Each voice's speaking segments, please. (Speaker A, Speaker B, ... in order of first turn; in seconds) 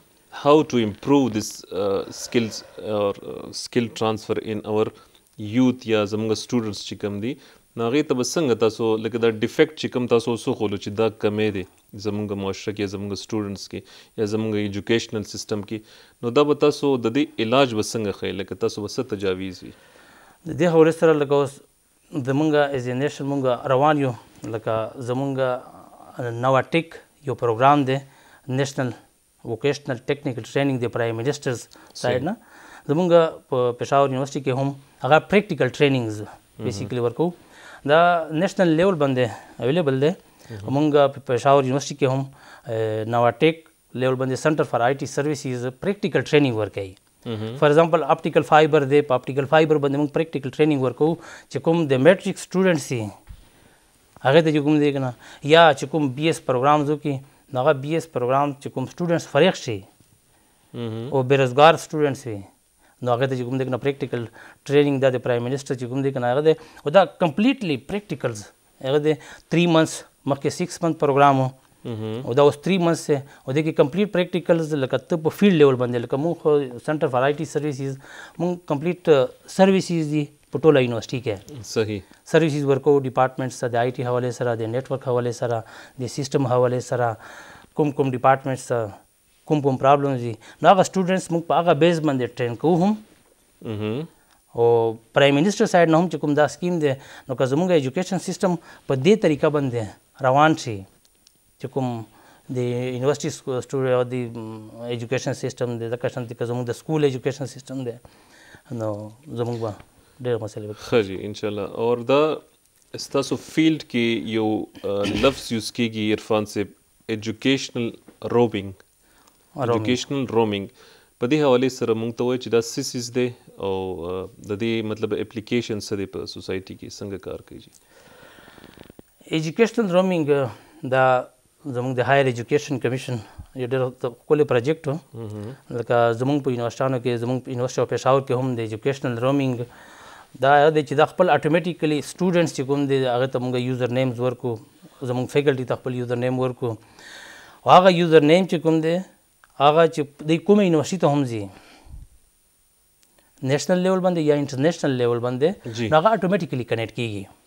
Speaker A: 0.3-19.7, 32.0-32.2, 36.6-36.9, 47.2-47.6, 60.7-61.1, 71.8-72.3, 81.5-82.0, 93.6-94.1, 110.8-118.8, 119.6-127.7, 135.1-135.6, 155.7-155.9
Speaker B: 20.4-47.0, 47.6-53.1, 54.2-59.9, 61.1-62.5, 63.0-71.5, 72.2-81.4, 82.2-87.2, 87.7-89.0, 89.5-93.0, 94.5-100.9, 101.6-108.0, 108.7-110.9, 119.5-120.0, 129.3-135.0, 135.7-139.7, 140.4-146.8, 147.6-149.0, 149.6-151.5, 153.4-157.3